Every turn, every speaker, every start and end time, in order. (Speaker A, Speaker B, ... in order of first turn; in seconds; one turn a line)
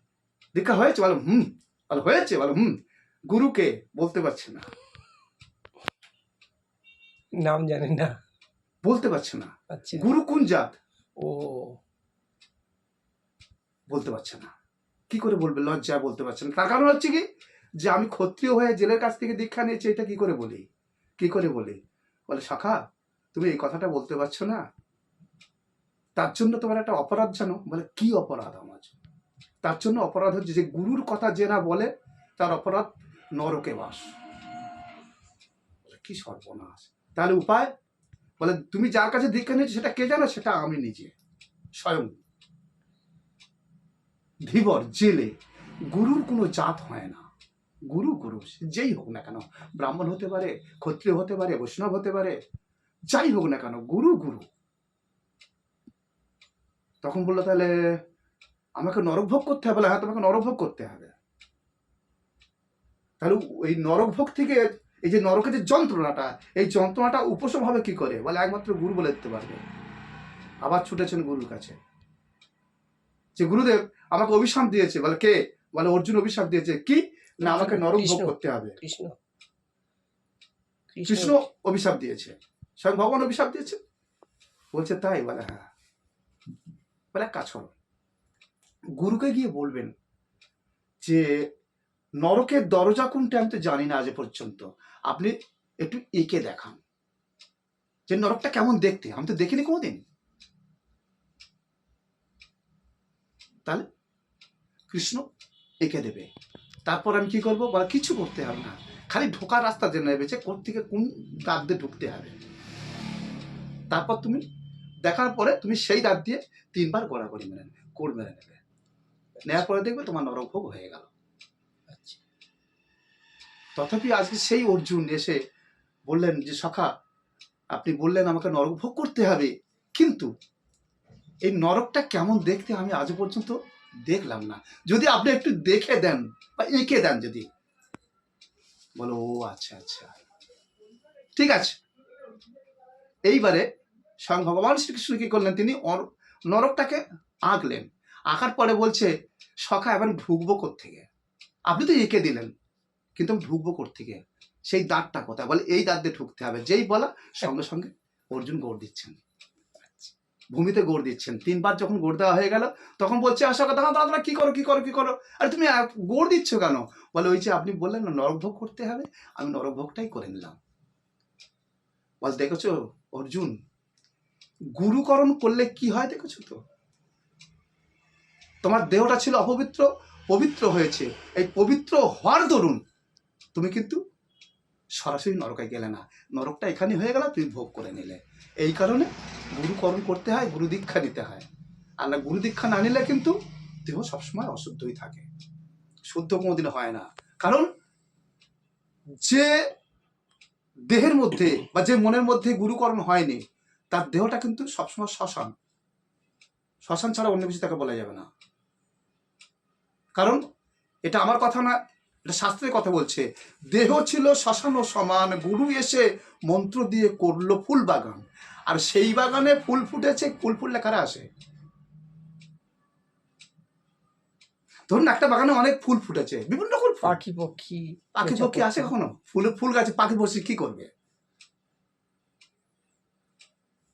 Speaker A: 0.5-4.7
Speaker B: 7.4-8.2
Speaker A: 8.8-10.7
Speaker B: 9.7-10.1
Speaker B: 11.2-11.8
Speaker A: 13.9-14.5
Speaker A: 15.1-17.2
Speaker A: 17.8-20.6
Speaker A: 21.2-21.8
Speaker A: 22.3-22.8
Speaker A: 23.3-24.6
Speaker A: 26.1-28.9
Speaker A: 29.6-34.1
Speaker A: 35.9-37.7
Speaker A: 38.4-41.1
Speaker A: 41.8-42.2
Speaker A: 44.5-45.4
Speaker A: 45.9-47.2
Speaker A: 47.9-52.4
Speaker A: 53.1-54.5
Speaker A: 57.0-58.0
Speaker A: 58.8-61.1
Speaker A: 63.2-69.6
Speaker A: 70.6-71.8
Speaker A: 73.4-78.8
Speaker B: 77.4-79.1
Speaker B: 80.9-81.4
Speaker A: 81.1-83.8
Speaker A: 84.7-85.6
Speaker A: 87.1-87.7
Speaker A: 89.0-89.9
Speaker A: 91.0-91.4
Speaker A: 92.2-96.8
Speaker A: 98.1-100.0
Speaker A: 104.9-105.2
Speaker A: 105.8-106.3
Speaker A: 106.9-112.3
Speaker A: 113.9-114.4
Speaker A: 115.0-118.6
Speaker B: 119.4-119.6
Speaker A: 119.5-121.1
Speaker B: 121.9-122.2
Speaker A: 123.8-125.4
Speaker A: 126.1-126.9
Speaker A: 127.7-130.3
Speaker A: 131.4-133.6
Speaker A: 134.1-137.4
Speaker A: 138.9-140.1
Speaker A: 141.3-141.8
Speaker A: 143.2-143.7
Speaker A: 144.2-149.1
Speaker A: 149.7-151.0
Speaker A: 151.7-152.5
Speaker A: 153.2-159.2
Speaker B: 159.8-160.1
Speaker A: 160.5-170.6
Speaker A: 172.2-173.5
Speaker A: 174.8-176.6
Speaker A: 178.6-182.8
Speaker A: 183.5-184.0
Speaker A: 185.0-191.5
Speaker A: 192.0-195.2
Speaker A: 196.1-197.7
Speaker A: 199.2-199.6
Speaker A: 200.9-205.5
Speaker A: 206.8-208.3
Speaker A: 211.1-221.2
Speaker A: 224.9-227.2
Speaker B: 227.0-228.9
Speaker A: 228.1-230.9